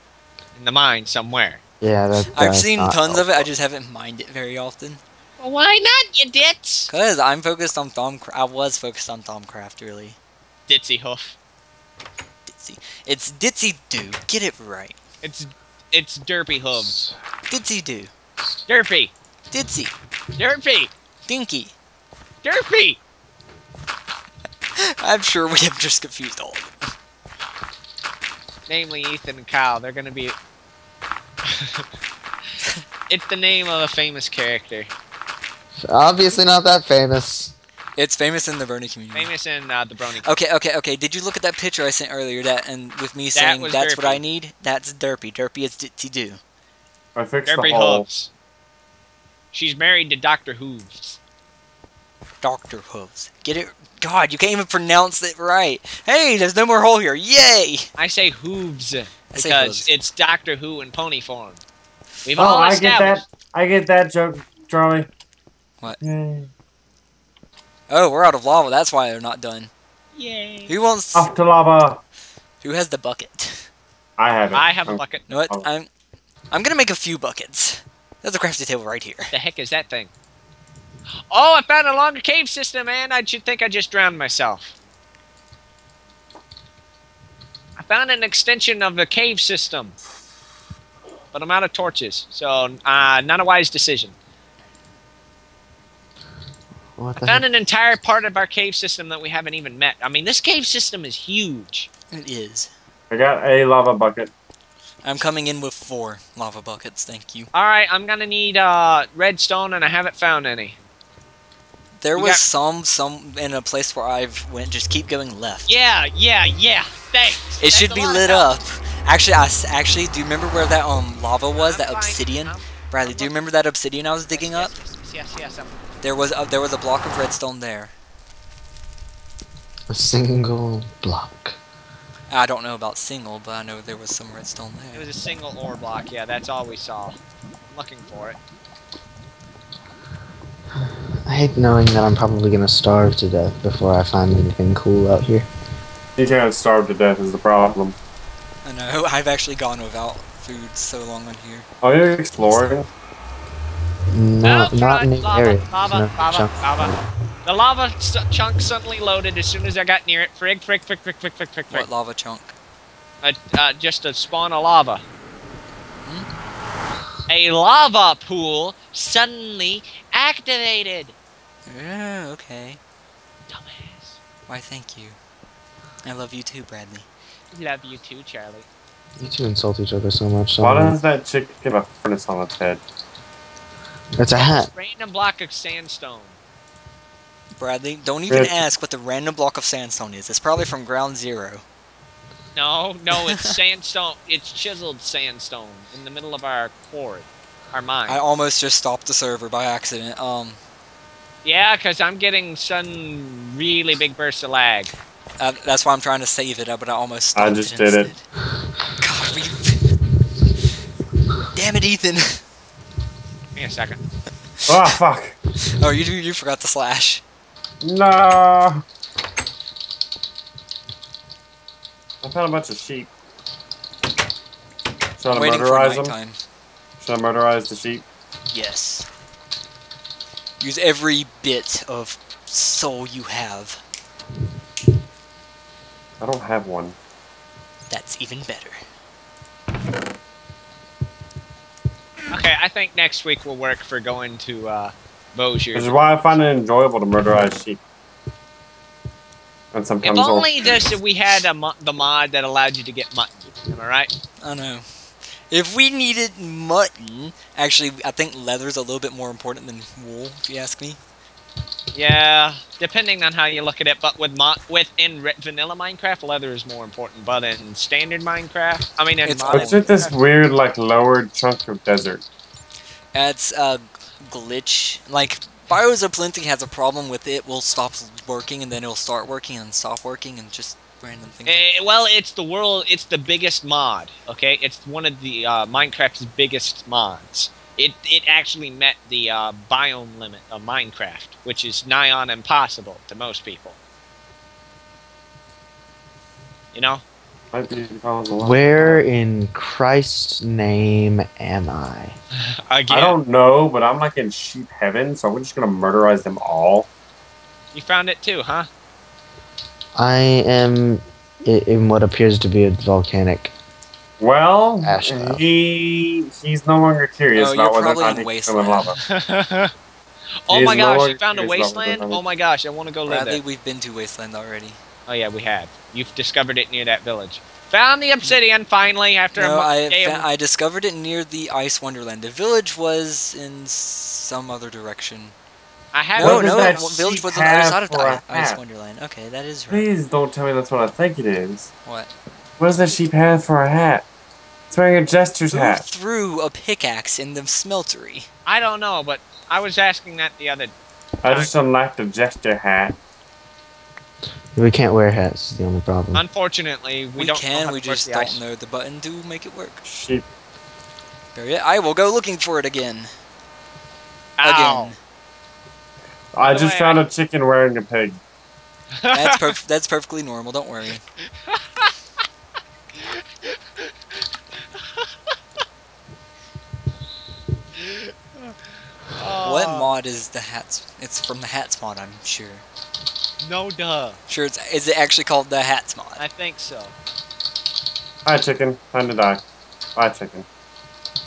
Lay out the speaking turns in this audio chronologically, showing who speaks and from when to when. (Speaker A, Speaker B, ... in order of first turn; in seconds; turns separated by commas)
Speaker A: 0.6-1.6, Speaker B: 1.8-3.5, Speaker C: 2.3-5.0, Speaker A: 5.4-6.9, Speaker C: 6.9-10.2, Speaker A: 10.7-11.4, Speaker C: 12.5-15.0, Speaker A: 15.2-16.9, Speaker B: 16.8-17.1, Speaker C: 17.5-18.1, Speaker A: 18.7-19.1, Speaker C: 19.5-19.9, Speaker A: 20.4-20.9, Speaker C: 21.3-21.8, Speaker A: 22.4-23.0, Speaker C: 24.8-26.9, Speaker A: 28.7-30.4, Speaker A: 31.5-31.9, Speaker A: 33.1-34.9, Speaker B: 35.8-37.5, Speaker C: 38.0-39.3, Speaker A: 39.1-40.3, Speaker C: 40.2-46.4, Speaker A: 43.3-44.2, Speaker D: 47.1-48.1, Speaker A: 47.5-48.3, Speaker A: 49.5-51.2, Speaker C: 52.4-57.9, Speaker A: 58.0-61.6, Speaker C: 59.3-59.9, Speaker A: 62.2-63.2, Speaker D: 62.4-65.1, Speaker D: 66.0-66.5, Speaker C: 67.9-69.7, Speaker A: 70.2-70.7, Speaker C: 70.7-71.3, Speaker D: 71.2-72.0, Speaker C: 72.6-73.7, Speaker D: 74.2-75.7, Speaker A: 74.5-75.2, Speaker C: 75.3-75.9, Speaker C: 76.5-79.3, Speaker A: 79.3-80.1, Speaker A: 81.3-84.8, Speaker A: 87.8-90.0, Speaker A: 91.3-94.2, Speaker B: 97.0-97.5, Speaker A: 97.2-101.9, Speaker C: 102.1-102.7, Speaker D: 103.1-104.3, Speaker C: 105.0-107.5, Speaker A: 107.5-110.8, Speaker C: 112.0-115.7, Speaker A: 112.2-112.4, Speaker A: 115.7-118.6, Speaker C: 117.6-124.7, Speaker A: 121.5-123.5, Speaker A: 124.3-125.9, Speaker C: 126.0-127.9, Speaker B: 129.9-131.6, Speaker C: 132.3-135.1, Speaker A: 134.9-137.2, Speaker A: 137.7-138.4, Speaker B: 141.3-145.5, Speaker D: 146.2-148.0, Speaker C: 148.6-151.7, Speaker D: 151.8-152.9, Speaker C: 152.4-152.8, Speaker B: 154.1-157.0, Speaker A: 154.4-156.9, Speaker A: 157.4-161.9, Speaker C: 161.7-162.6, Speaker A: 163.2-165.0, Speaker A: 167.3-171.2, Speaker C: 171.7-172.8, Speaker A: 173.5-174.2, Speaker C: 174.5-175.2, Speaker C: 176.0-177.1, Speaker A: 177.5-178.7, Speaker B: 179.2-181.0, Speaker D: 180.6-182.8, Speaker B: 184.2-184.7, Speaker A: 184.4-186.4, Speaker C: 187.5-191.7, Speaker D: 188.3-188.6, Speaker A: 192.6-198.2, Speaker C: 198.1-200.6, Speaker A: 201.4-204.9, Speaker C: 205.4-208.2, Speaker D: 207.3-208.1, Speaker C: 209.0-209.9, Speaker C: 211.5-212.4, Speaker A: 213.6-214.0, Speaker D: 214.7-215.4, Speaker C: 215.8-217.2, Speaker D: 217.8-218.8, Speaker D: 222.2-223.1, Speaker D: 225.2-226.2, Speaker C: 225.3-226.4, Speaker D: 227.0-228.1, Speaker C: 228.5-229.1, Speaker C: 230.6-233.8, Speaker D: 236.2-237.0, Speaker C: 237.9-238.8, Speaker A: 242.3-246.4, Speaker D: 245.7-247.8, Speaker D: 249.7-250.8, Speaker A: 250.0-254.1, Speaker C: 254.4-254.9, Speaker C: 255.4-261.0, Speaker A: 261.9-270.1, Speaker C: 269.2-269.8, Speaker D: 269.5-272.2, Speaker C: 273.1-281.7, Speaker A: 281.5-293.8, Speaker A: 296.7-297.0, Speaker D: 297.5-299.0, Speaker B: 298.4-302.2, Speaker A: 302.7-303.2, Speaker D: 302.9-306.9, Speaker A: 307.7-308.7, Speaker B: 310.0-313.5, Speaker D: 314.2-319.0, Speaker B: 314.8-315.4, Speaker C: 317.3-319.0, Speaker A: 319.1-319.7, Speaker A: 320.5-323.4, Speaker D: 320.5-322.2, Speaker C: 323.1-324.8, Speaker A: 325.1-330.3, Speaker C: 329.4-335.4, Speaker A: 335.9-336.8, Speaker C: 336.2-339.9, Speaker D: 336.2-338.6, Speaker D: 339.7-341.7, Speaker C: 341.9-342.1, Speaker D: 342.6-344.1, Speaker D: 344.7-345.9, Speaker C: 345.5-348.3, Speaker A: 348.5-350.7, Speaker D: 351.2-353.0, Speaker B: 354.6-356.2, Speaker A: 356.1-358.4, Speaker C: 357.1-359.8, Speaker D: 359.9-360.3, Speaker C: 361.4-363.1, Speaker A: 364.4-364.9, Speaker C: 364.4-365.0, Speaker D: 366.4-368.2, Speaker A: 366.4-367.0, Speaker A: 369.0-369.3, Speaker C: 369.1-371.0, Speaker A: 371.5-371.9, Speaker A: 373.0-373.9, Speaker A: 374.8-375.1, Speaker A: 377.8-379.9, Speaker C: 379.4-382.6, Speaker A: 383.4-384.2, Speaker C: 384.3-386.2, Speaker A: 386.2-386.9, Speaker D: 388.2-389.4, Speaker D: 390.0-390.5